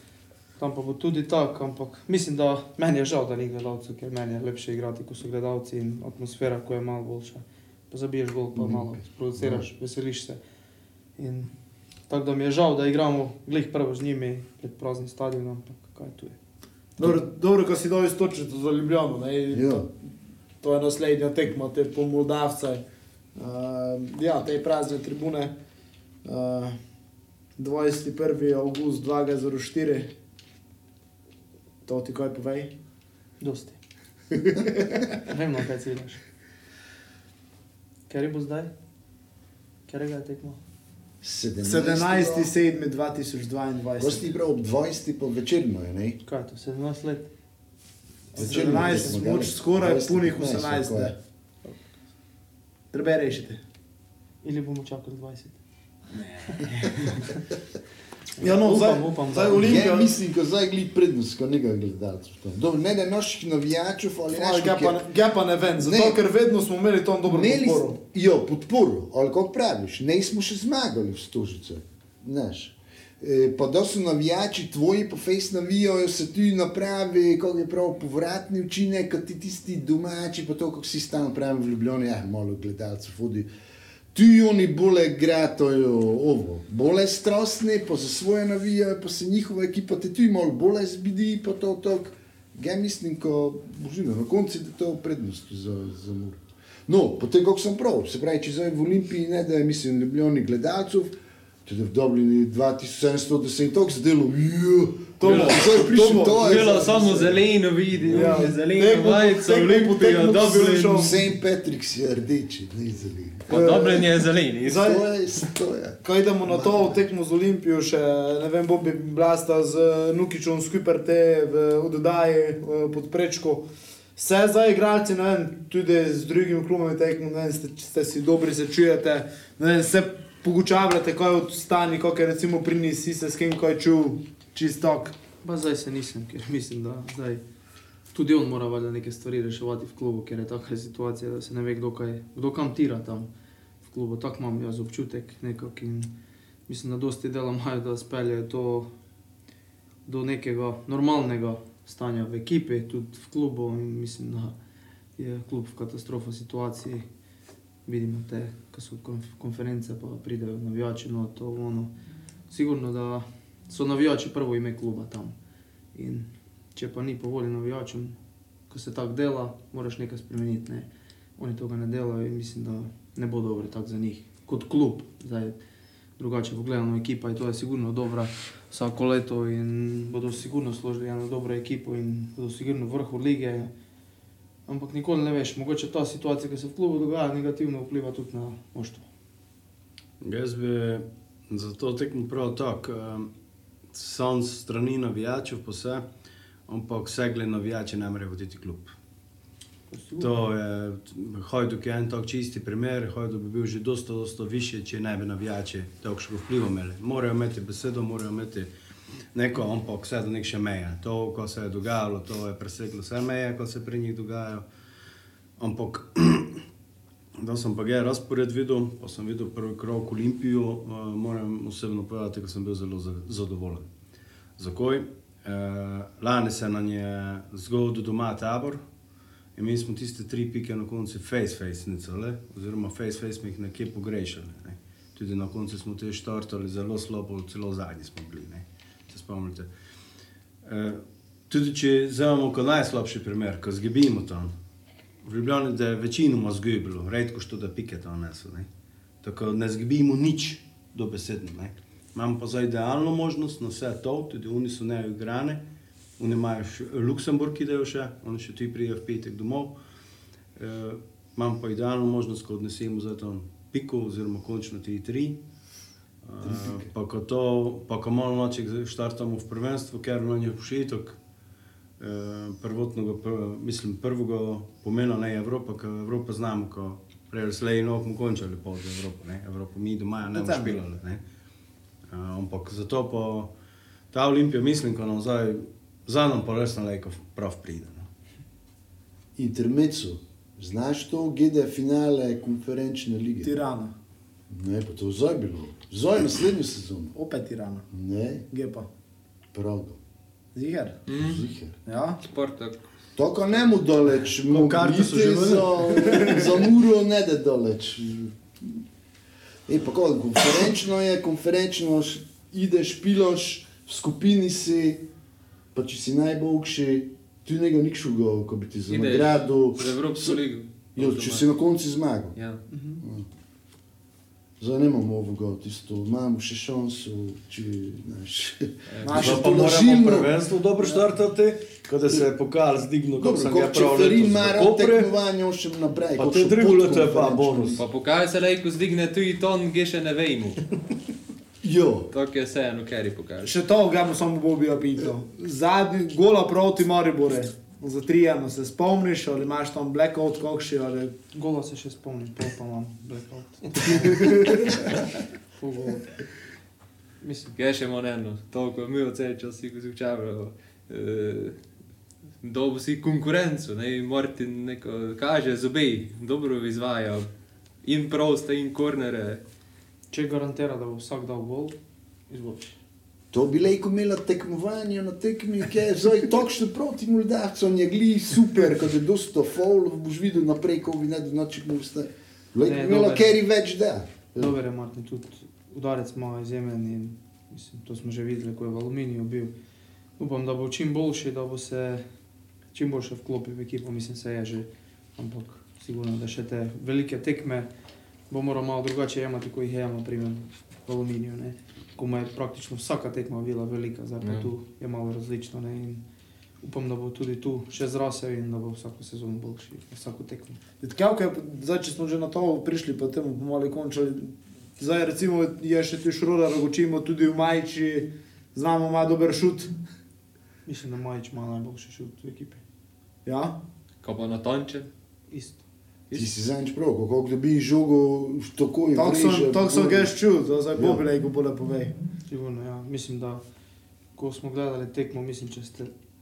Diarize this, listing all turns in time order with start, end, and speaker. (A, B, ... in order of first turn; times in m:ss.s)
0:00.6-0:10.4 A
0:08.6-0:09.6 B
0:11.2-0:11.5 A
0:12.1-0:16.4 A
0:17.0-0:19.9 C
0:19.5-0:19.9 B
0:20.6-0:22.8 C
0:23.4-0:25.5 C
0:26.2-0:26.8 C
0:27.6-0:30.1 C
0:31.8-0:32.7 C
0:33.4-0:33.8 A
0:35.0-0:36.2 A
0:38.1-0:38.7 A
0:39.9-0:40.6 A
0:41.2-0:42.5 B
0:41.6-0:44.3 C
0:44.0-0:46.2 B
0:46.2-0:47.3 A
0:48.3-0:51.2 C
0:48.3-0:49.1 A
0:48.4-0:51.1 B
0:52.9-0:53.6 C
0:54.4-0:55.6 A
0:56.1-0:57.2 C
0:58.4-0:59.8 A
0:58.4-1:00.1 C
0:59.5-1:05.1 B
1:04.3-1:08.0 C
1:05.8-1:06.2 B
1:07.2-1:23.5 B
1:24.1-1:47.4 B
1:45.2-1:47.2 C
1:45.2-1:51.2 D
1:47.9-1:48.4 B
1:48.1-1:51.2 C
1:50.8-1:53.7 B
1:53.5-1:55.0 D
1:53.5-1:54.0 C
1:54.6-1:55.0 C
1:54.7-1:57.0 B
1:56.0-2:03.6 C
2:04.2-2:15.1 C
2:15.4-2:17.4 A
2:18.1-2:23.3 A
2:23.8-2:26.1 A
2:26.7-2:28.9 A
2:30.0-2:34.5 A
2:35.2-2:37.1 A
2:37.8-2:41.9 A
2:42.5-2:45.3 A
2:45.9-2:48.2 A
2:48.7-2:55.6 A
2:56.2-3:03.7 A
3:04.7-3:09.0 A
3:10.2-3:13.3 E
3:13.9-3:16.0 E
3:16.7-3:18.9 E
3:19.9-3:20.4 A
3:20.2-3:28.7 E
3:29.3-3:34.6 E
3:35.6-3:36.6 E
3:37.4-3:43.9 E
3:44.6-3:48.8 E
3:49.6-3:59.7 E
4:00.6-4:04.5 E
4:05.2-4:08.7 E
4:09.2-4:15.6 E
4:16.2-4:19.8 E
4:20.6-4:25.4 E
4:26.2-4:31.2 E
4:26.4-4:26.9 B
4:32.0-4:41.2 E
4:40.3-4:40.8 C
4:42.1-4:43.5 E
4:44.1-4:48.1 E
4:49.4-4:53.5 B
4:53.4-4:53.9 C
4:54.5-4:57.1 B
4:57.1-4:57.8 C
4:57.9-4:58.5 B
4:58.5-4:58.9 C
4:59.5-5:00.0 B
5:00.5-5:01.0 C
5:01.1-5:01.4 D
5:01.1-5:01.8 B
5:01.8-5:02.2 C
5:02.2-5:02.8 D
5:03.2-5:08.8 B
5:04.5-5:06.3 E
5:09.7-5:15.1 B
5:15.7-5:20.4 B
5:18.9-5:21.4 D
5:21.0-5:22.3 B
5:22.4-5:22.6 D
5:22.7-5:23.0 A
5:23.0-5:23.2 B
5:24.6-5:30.3 B
5:28.9-5:29.3 D
5:29.0-5:29.8 C
5:29.1-5:35.1 E
5:33.2-5:37.8 B
5:36.2-5:37.8 E
5:37.8-5:40.6 D
5:41.6-5:42.1 B
5:42.1-5:43.6 D
5:43.4-5:51.2 C
5:51.3-5:54.9 A
5:55.5-5:56.2 A
5:57.2-5:57.5 A
5:57.5-6:01.6 D
6:02.4-6:07.3 D
6:07.8-6:09.4 D
6:10.1-6:11.8 A
6:12.3-6:12.8 A
6:13.3-6:24.5 B
6:22.6-6:23.4 A
6:24.4-6:29.5 A
6:30.2-6:32.0 A
6:32.7-6:37.7 A
6:38.3-6:46.0 A
6:46.6-6:50.6 A
6:50.8-6:59.7 C
7:00.6-7:02.6 A
7:03.2-7:03.6 C
7:04.0-7:04.9 D
7:05.3-7:05.6 A
7:06.1-7:10.1 B
7:09.0-7:11.9 C
7:10.7-7:11.0 B
7:12.3-7:13.4 A
7:14.2-7:15.9 A